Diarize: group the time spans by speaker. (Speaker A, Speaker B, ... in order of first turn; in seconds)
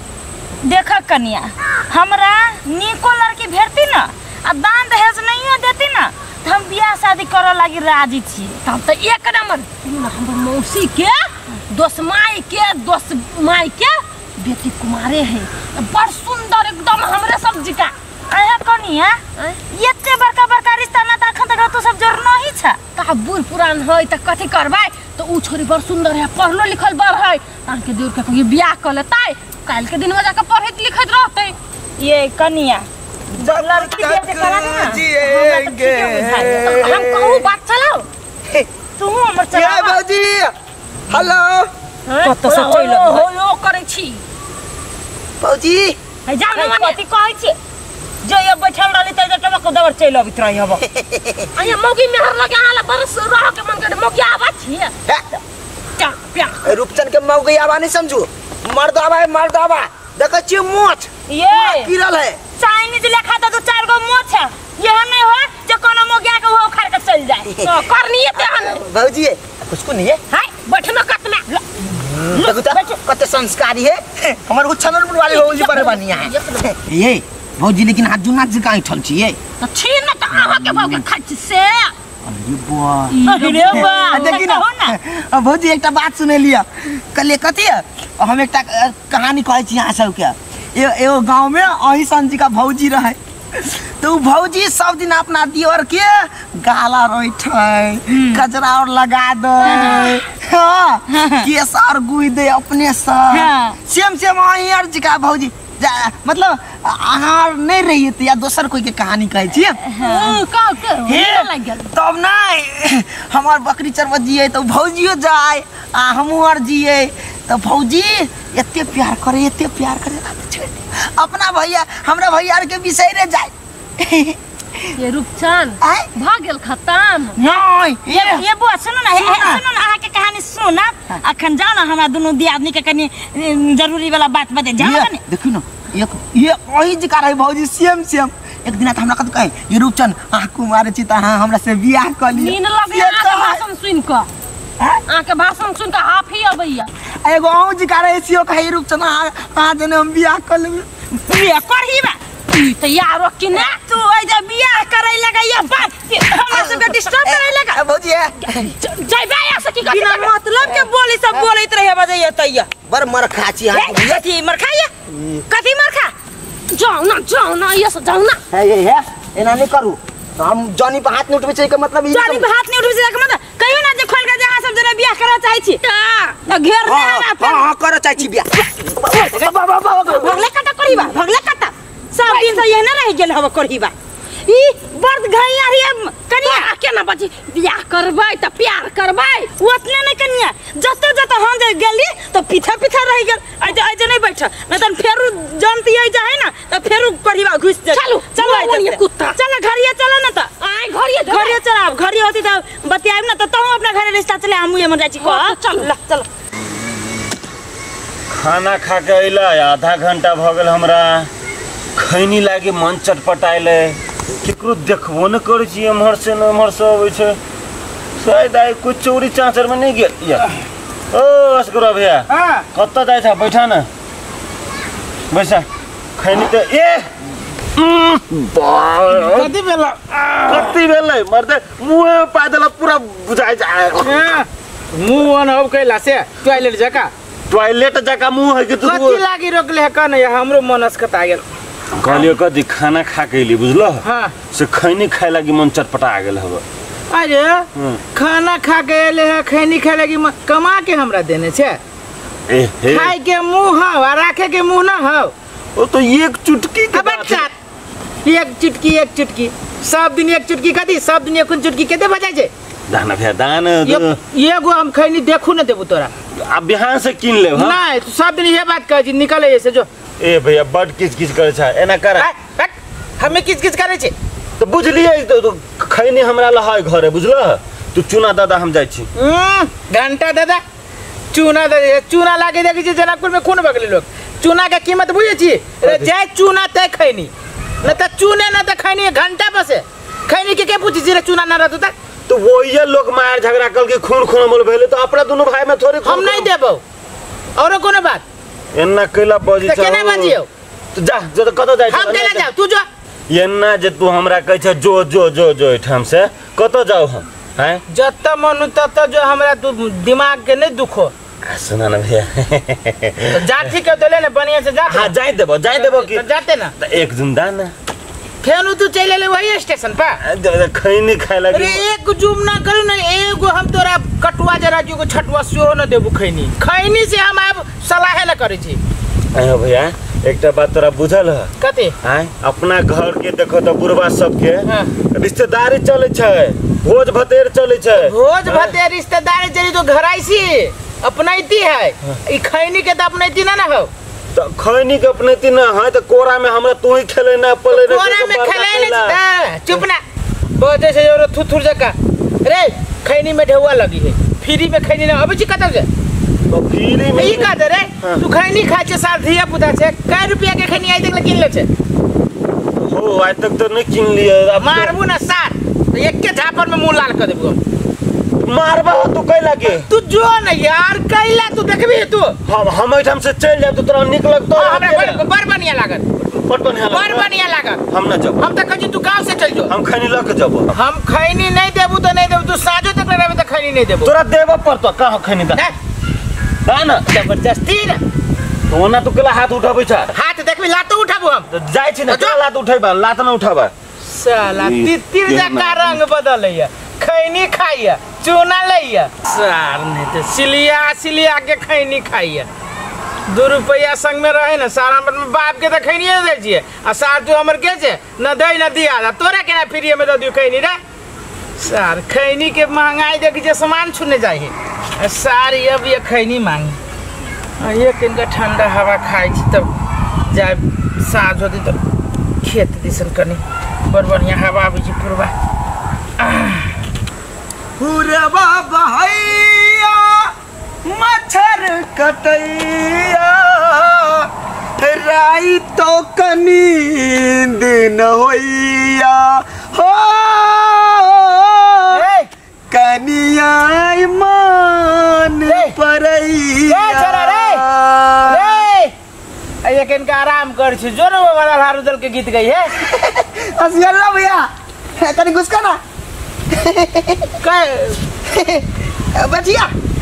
Speaker A: 0.6-8.6, 18.3-22.8, 32.0-32.9, 33.4-36.9, 39.0-40.0, 42.2-43.3, 46.3-47.6, 48.2-50.8, 61.3-61.9, 62.6-67.5, 72.3-73.0, 83.2-85.0, 98.1-98.4, 99.6-100.2, 101.1-101.5, 103.3-103.8, 109.9-110.4, 128.1-135.2, 151.2-152.2, 153.5-157.8, 159.8-162.7, 163.7-164.9, 165.5-166.1, 172.1-175.8, 176.5-177.6, 179.1-179.3, 180.1-183.9, 184.5-186.7, 189.6-200.5, 201.2-206.3
Speaker B: 8.7-17.9, 23.0-31.6, 36.4-38.1, 42.1-44.2, 46.4-47.0, 51.6-54.7, 56.0-56.7, 67.6-68.8, 70.5-71.5, 75.3-76.7, 79.6-81.9, 83.2-84.4, 110.0-111.9, 125.0-127.4, 142.3-144.3, 145.1-146.9, 152.5-153.8, 158.8-160.8, 166.7-168.4, 175.8-176.4, 180.1-181.2, 182.2-182.7, 186.4-189.5, 197.9-199.4, 200.6-201.6, 205.2-205.9
Speaker C: 33.3-37.5, 39.5-40.5, 41.1-41.7, 45.4-46.0, 50.7-51.5, 55.1-55.4, 56.6-62.4, 67.5-67.8, 68.3-70.2, 71.9-79.4, 82.2-109.8, 111.1-125.0, 125.8-126.1, 127.4-128.5, 129.1-129.6, 134.8-143.6, 147.2-150.9, 156.3-158.7, 162.9-164.2, 165.1-165.4, 168.5-172.5, 176.8-180.4, 427.8-430.3, 430.8-442.1, 442.7-448.6, 452.8-455.8, 456.5-457.4, 458.3-459.7
Speaker D: 208.3-211.3, 211.9-217.4, 218.2-220.5, 221.1-223.9, 225.3-225.7, 226.2-227.1, 227.8-229.5, 230.5-234.3, 237.5-239.2, 242.0-246.6, 247.8-248.0, 252.5-253.1, 255.8-257.5, 262.9-264.2, 266.4-267.8, 270.2-272.3, 274.6-279.1, 285.8-286.1, 292.3-296.5, 298.7-300.4, 301.0-302.5, 303.3-307.8, 311.4-313.4, 314.9-316.3, 316.8-317.7, 320.2-321.8, 329.3-331.5, 332.0-338.8, 344.3-349.2, 356.5-358.2, 362.8-364.9, 368.4-369.9, 372.5-375.2, 376.2-377.3, 377.9-378.4, 379.7-380.7, 384.0-385.7, 386.7-387.0, 388.7-390.1, 391.5-393.7, 394.5-396.0
Speaker E: 222.3-222.7, 229.1-230.8, 234.0-237.1, 238.8-241.4, 244.0-244.3, 247.1-251.8, 252.9-255.3, 256.9-257.5, 258.2-262.5, 263.9-266.1, 267.5-269.9, 272.2-274.1, 279.2-280.6, 281.3-287.3, 287.8-291.9, 296.0-296.8, 297.6-298.2, 299.6-300.5, 301.9-302.9, 307.9-311.1, 313.3-315.1, 315.7-316.7, 318.4-320.2, 321.5-328.8, 331.6-331.9, 334.6-334.9, 338.0-343.9, 347.7-350.0, 350.6-355.9, 357.1-361.7, 364.6-367.6, 369.6-372.4, 374.6-376.1, 376.9-377.8, 378.4-379.7, 380.7-384.1, 387.1-388.0, 390.1-391.5, 392.1-392.4, 394.1-402.5, 403.3-410.8, 411.6-416.8, 417.6-419.7, 420.3-421.8, 422.4-425.3, 426.2-426.7, 441.9-442.3, 445.5-445.8, 446.7-447.6, 448.3-448.9, 449.6-452.7, 457.4-458.0